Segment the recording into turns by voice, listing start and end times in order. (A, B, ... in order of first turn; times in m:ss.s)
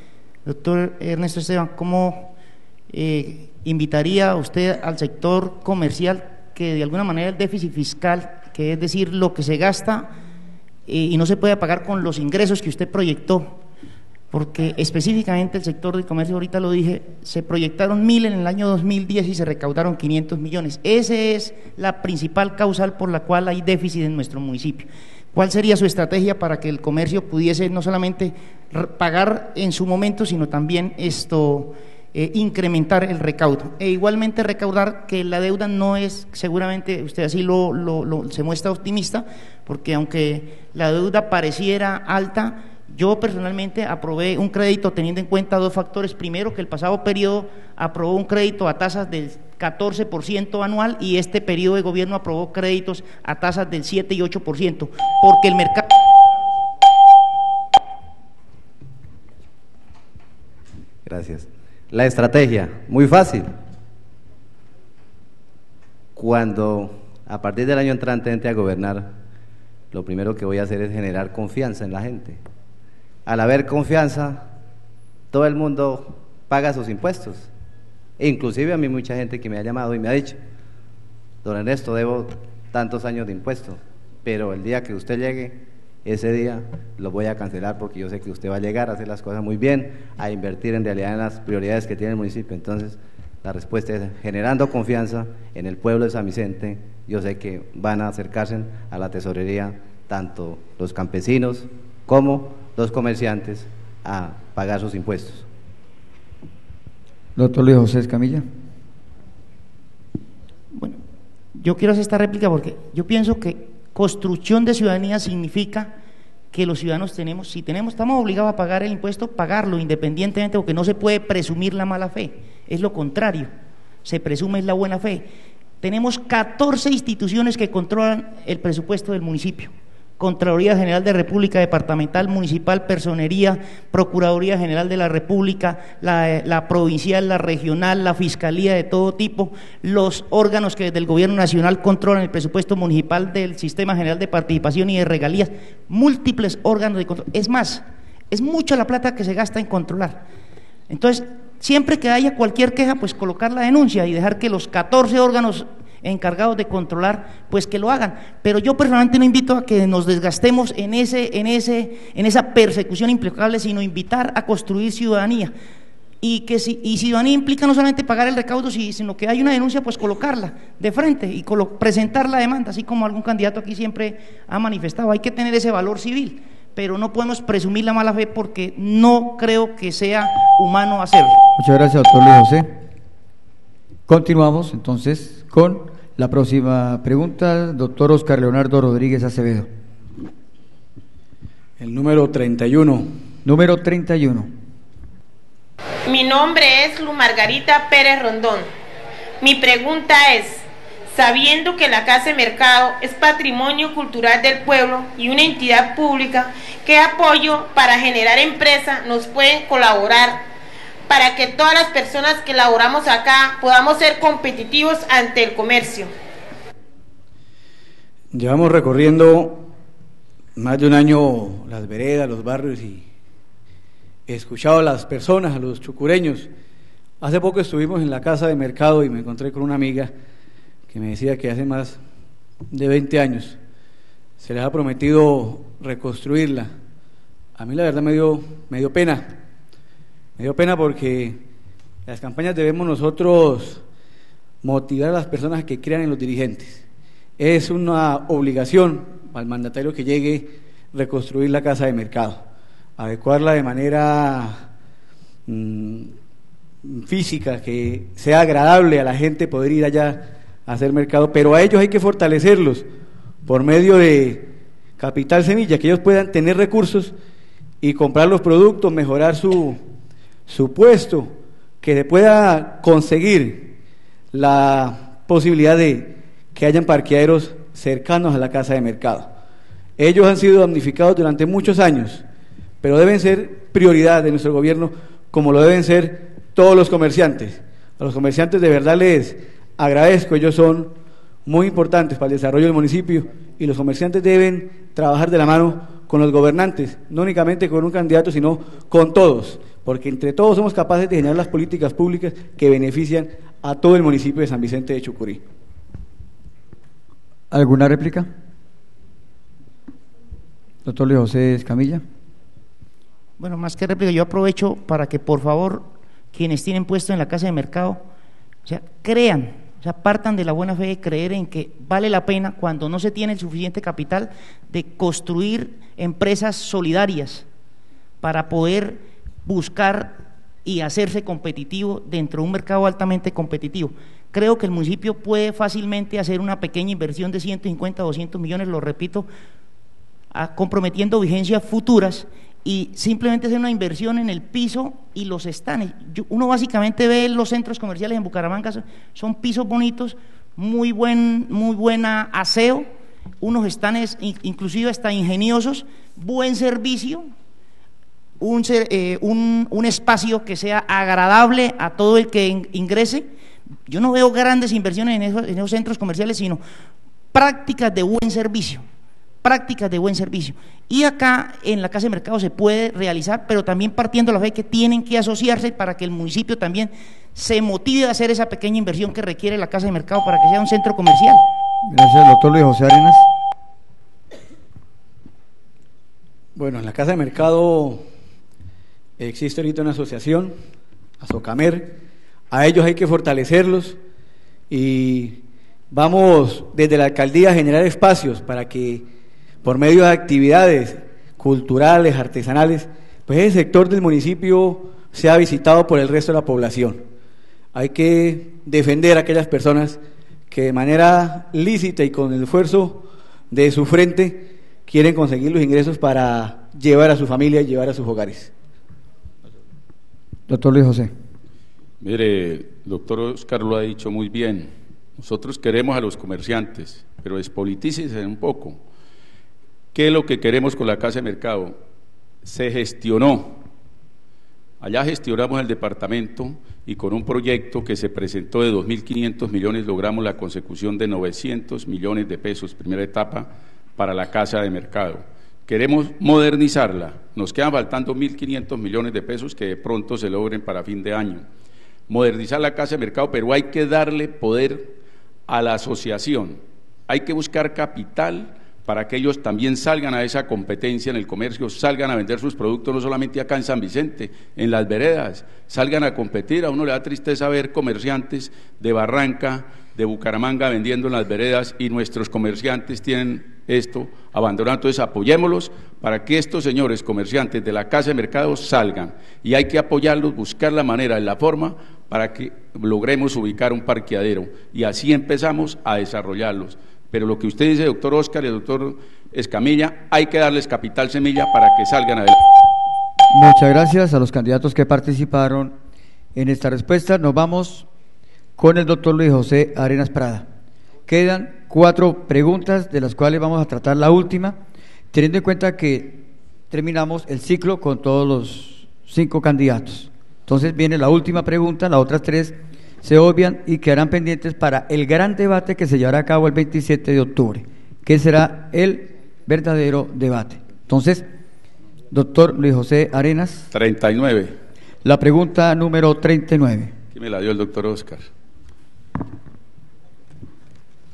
0:00.4-0:02.3 A
0:02.9-0:10.1 A
0:10.9-0:13.6 A
0:14.3-0:55.9 A
1:01.0-1:03.5 B
1:06.2-1:09.2 B
1:09.9-1:12.4 B
1:13.2-1:14.4 B
1:15.3-1:17.5 B
1:18.2-1:20.4 B
1:21.4-1:45.5 B
1:47.4-1:48.4 C
1:50.7-1:51.0 A
1:51.5-1:55.9 A
1:56.5-2:03.5 A
2:04.0-2:05.2 A
2:05.8-2:30.2 A
2:30.9-2:45.5 A
2:46.2-3:01.4 A
3:01.6-3:02.7 C
3:04.1-3:09.7 C
3:11.8-3:13.1 D
3:13.4-3:14.5 C
3:16.0-3:18.7 E
3:19.4-3:30.4 E
3:31.1-3:36.1 E
3:38.3-3:39.7 D
3:40.6-3:43.0 D
3:44.3-3:46.5 D
3:47.2-3:50.1 D
3:50.9-3:52.0 D
3:52.7-3:53.6 D
3:54.4-3:56.7 D
3:57.6-3:59.3 D
4:00.4-4:01.4 D
4:02.0-4:03.8 D
4:04.6-4:06.8 D
4:07.4-4:12.4 D
4:13.0-4:14.6 D
4:15.5-4:16.1 D
4:16.8-4:22.8 D
4:23.4-4:27.1 D
4:27.8-4:29.8 D
4:30.5-4:33.7 D
4:34.3-4:39.3 D
4:40.0-4:42.2 D
4:42.8-4:50.9 D
4:51.4-5:05.4 D
5:07.5-5:08.3 C
5:10.8-5:12.0 C
5:13.4-5:18.0 A
5:18.6-5:27.4 A
5:28.2-5:39.3 A
5:40.3-5:52.9 A
5:53.4-5:57.3 A
5:58.4-6:03.2 A
6:03.9-6:06.6 A
6:07.3-6:08.8 A
6:09.4-6:21.4 A
6:21.9-6:23.2 C
6:26.6-6:28.0 D
6:29.2-6:30.5 D
6:31.2-6:31.9 D
6:32.5-6:34.0 D
6:34.7-6:35.4 D
6:35.9-6:39.0 D
6:39.6-6:47.0 D
6:47.7-6:50.0 D
6:50.5-6:58.5 D
7:00.5-7:01.1 C
7:02.0-7:08.8 F
7:09.9-7:11.8 F
7:12.4-7:13.6 F
7:14.8-7:31.4 F
7:32.1-7:35.0 F
7:35.5-8:12.4 F
8:13.3-8:15.7 C
8:16.4-8:17.9 C
8:18.6-8:20.4 C
8:21.1-8:24.6 C
8:25.1-8:41.2 C
8:42.1-8:43.7 C
8:43.7-8:44.5 F
8:45.0-8:46.9 C
8:47.1-8:48.2 F